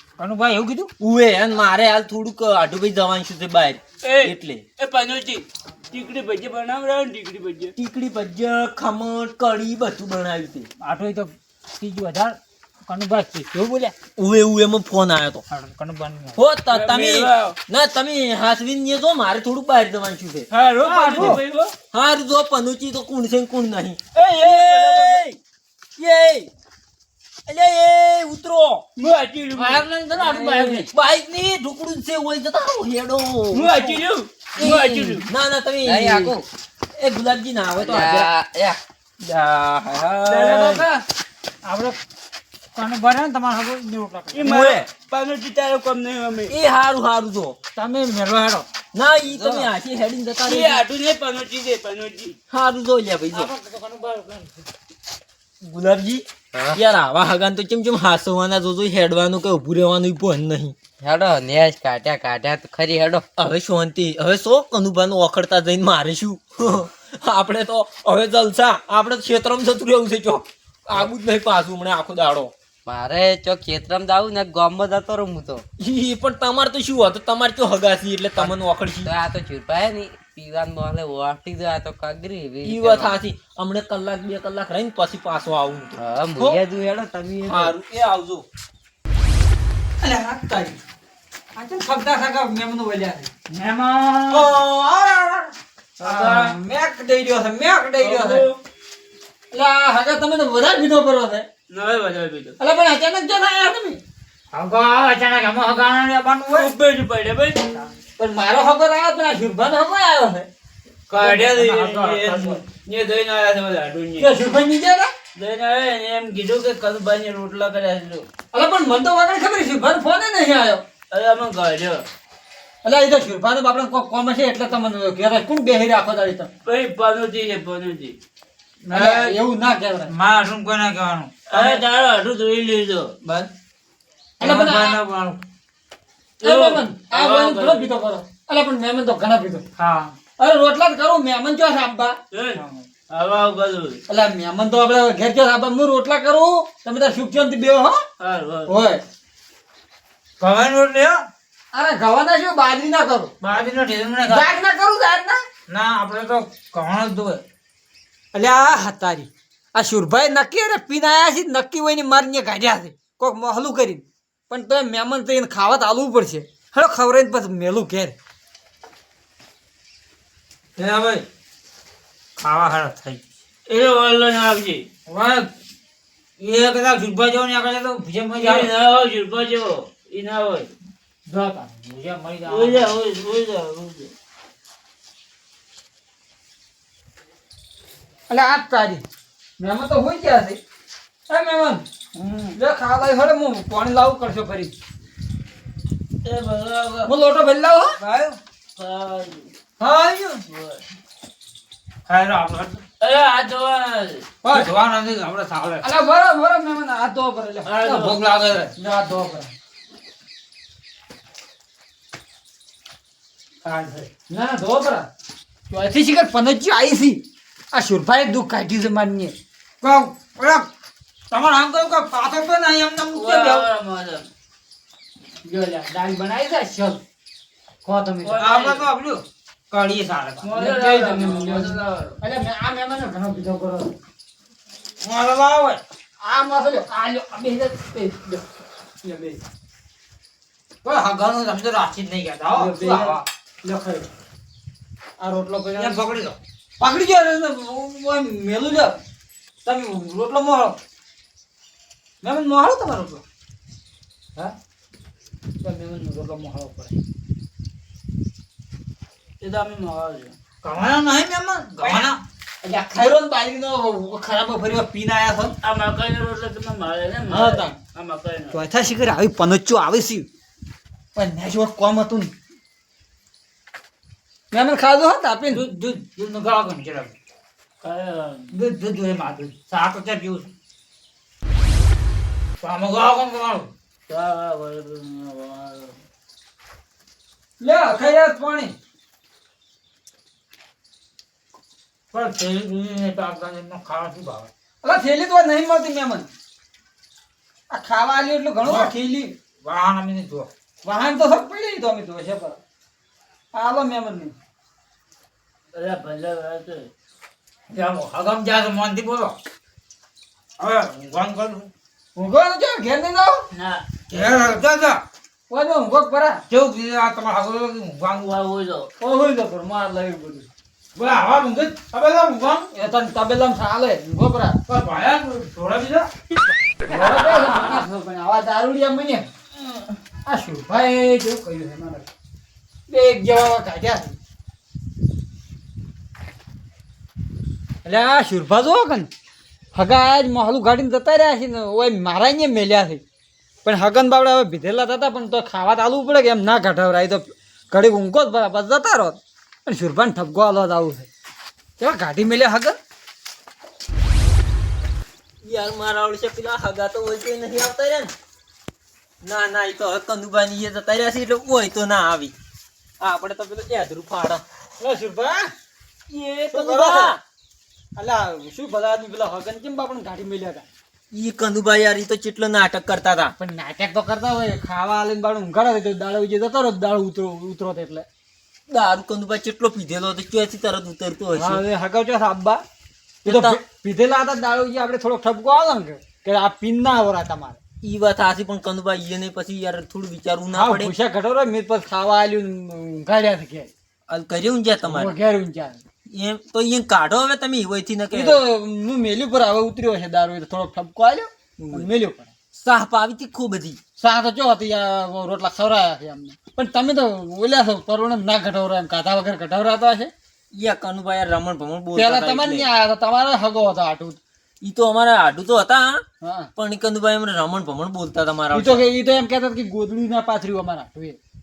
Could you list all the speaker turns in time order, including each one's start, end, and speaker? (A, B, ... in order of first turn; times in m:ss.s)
0:00.2-0:00.9 A
0:01.0-0:04.6 B
0:04.0-0:07.7 C
0:07.8-0:10.7 B
0:10.8-0:13.9 A
0:14.2-0:15.4 B
0:15.5-0:16.4 A
0:16.4-0:20.5 B
0:16.7-0:17.6 C
0:20.5-0:21.7 C
0:20.8-0:21.4 A
0:21.9-0:25.4 B
0:24.1-0:25.2 C
0:26.0-0:26.5 B
0:27.5-0:28.8 B
0:29.0-0:29.9 C
0:29.5-0:30.9 A
0:30.2-0:34.0 B
0:33.5-0:35.3 C
0:34.6-0:36.4 B
0:35.8-0:36.4 D
0:37.0-0:38.3 B
0:37.8-0:38.8 D
0:39.2-0:40.8 B
0:40.3-0:40.9 A
0:41.6-0:42.0 A
0:42.8-0:44.8 A
0:44.3-0:46.5 C
0:44.5-0:44.8 B
0:46.5-0:47.6 B
0:47.8-0:48.6 A
0:48.9-0:50.8 B
0:49.3-0:49.7 D
0:50.4-0:52.4 C
0:52.5-0:53.5 B
0:53.3-0:54.7 A
0:55.6-1:00.7 B
1:01.0-1:03.2 D
1:03.4-1:12.5 B
1:12.8-1:15.6 D
1:15.8-1:19.1 B
1:19.0-1:23.2 D
1:22.6-1:26.6 B
1:26.0-1:27.7 D
1:27.4-1:28.4 B
1:30.0-1:30.8 E
1:31.6-1:33.3 E
1:33.5-1:34.5 A
1:34.3-1:35.1 B
1:36.0-1:36.5 C
1:36.0-1:38.4 A
1:36.4-1:37.6 E
1:38.0-1:38.6 C
1:39.5-1:41.5 E
1:41.7-1:42.6 C
1:42.6-1:44.0 E
1:44.5-1:46.7 A
1:46.5-1:47.9 C
1:48.2-1:50.5 E
1:51.1-1:54.3 C
1:51.2-1:52.6 A
1:54.2-1:55.1 E
1:55.4-1:58.2 C
1:58.5-2:00.8 E
2:01.1-2:02.0 C
2:02.8-2:06.5 E
2:06.6-2:08.2 C
2:08.9-2:10.1 E
2:08.9-2:09.4 A
2:10.1-2:11.8 A
2:11.5-2:13.2 C
2:14.4-2:15.4 A
2:14.4-2:15.0 E
2:16.4-2:17.9 C
2:16.4-2:19.6 E
2:19.8-2:20.1 A
2:20.4-2:22.2 E
2:22.3-2:24.0 C
2:22.6-2:22.8 A
2:24.1-2:28.0 E
2:28.2-2:28.8 C
2:28.6-2:29.0 E
2:30.4-2:31.2 A
2:31.7-2:33.3 E
2:33.4-2:34.5 A
2:34.3-2:35.5 E
2:35.7-2:37.4 A
2:38.3-2:48.1 E
2:50.8-2:51.2 B
2:52.4-2:53.2 A
2:53.7-2:54.9 C
2:55.1-2:55.5 A
2:56.4-2:58.7 A
2:58.3-3:00.7 C
3:01.3-3:03.0 A
3:02.4-3:04.1 C
3:08.3-3:09.0 E
3:09.6-3:10.6 E
3:11.3-3:11.8 E
3:12.2-3:12.5 C
3:12.6-3:14.7 E
3:16.2-3:17.1 C
3:17.0-3:17.9 E
3:18.0-3:19.5 C
3:19.8-3:20.4 E
3:20.5-3:20.8 C
3:22.1-3:22.8 A
3:23.0-3:24.3 C
3:24.4-3:24.7 E
3:24.4-3:25.8 A
3:25.8-3:29.5 E
3:27.6-3:28.2 C
3:33.6-3:34.1 A
3:34.1-3:35.1 E
3:35.7-3:37.2 E
3:37.7-3:39.3 E
3:39.8-3:40.6 A
3:41.3-3:43.7 A
3:43.1-3:44.3 C
3:45.5-3:47.0 E
3:45.5-3:46.2 A
3:47.9-3:48.4 E
3:48.2-3:48.9 C
3:48.3-3:51.1 A
3:50.4-3:52.2 C
3:50.8-3:54.0 E
3:55.0-3:55.8 A
3:56.2-3:57.1 E
3:57.0-3:58.4 A
3:59.0-3:59.4 E
4:00.8-4:03.2 A
4:02.6-4:04.1 E
4:05.2-4:06.0 E
4:05.7-4:06.4 A
4:06.8-4:08.9 E
4:09.6-4:10.8 E
4:12.2-4:13.2 A
4:15.6-4:16.9 A
4:19.4-4:20.3 C
4:20.6-4:22.2 A
4:22.6-4:25.5 E
4:25.6-4:28.6 C
4:27.3-4:27.8 E
4:28.5-4:30.3 E
4:31.2-4:32.3 E
4:34.5-4:35.6 E
4:35.5-4:37.1 A
4:37.8-4:38.5 C
4:38.5-4:40.5 A
4:42.6-4:43.7 A
4:44.1-4:46.0 C
4:47.6-4:48.7 E
4:52.1-4:54.5 A
4:54.8-4:56.3 E
4:57.7-4:59.3 E
4:58.6-4:58.9 A
4:59.6-5:00.5 A
5:00.8-5:02.6 E
5:03.5-5:04.3 E
5:05.7-5:06.9 C
5:07.7-5:09.3 A
5:10.6-5:11.7 A
5:12.1-5:13.4 E
5:13.5-5:14.5 C
5:14.1-5:15.0 A
5:15.5-5:16.4 E
5:16.5-5:18.3 A
5:18.2-5:18.9 C
5:19.0-5:20.5 E
5:21.0-5:22.7 A
5:22.7-5:24.6 E
5:24.7-5:26.1 A
5:26.8-5:29.3 E
5:30.2-5:32.0 E
5:32.9-5:34.2 E
5:37.8-5:39.1 E
5:39.7-5:43.0 E
5:43.6-5:51.1 E
5:51.8-5:52.8 E
5:55.4-5:58.1 B
5:59.2-6:02.3 B
6:03.0-6:04.4 B
6:04.8-6:05.5 E
6:06.1-6:07.2 B
6:06.5-6:07.2 E
6:08.0-6:10.6 E
6:11.1-6:13.3 B
6:13.4-6:18.0 E
6:18.7-6:21.6 B
6:21.4-6:22.6 E
6:23.2-6:27.6 E
6:23.2-6:23.6 B
6:27.8-6:30.9 B
6:30.5-6:33.7 E
6:34.1-6:35.1 B
6:34.8-6:35.8 E
6:36.1-6:38.4 B
6:38.1-6:42.3 E
6:41.6-6:41.9 B
6:42.5-6:43.8 B
6:44.0-6:50.1 E
6:50.5-6:52.7 B
6:51.9-6:54.2 E
6:54.6-6:56.0 B
6:56.2-6:56.5 E
6:56.6-6:58.8 B
6:58.5-7:01.2 E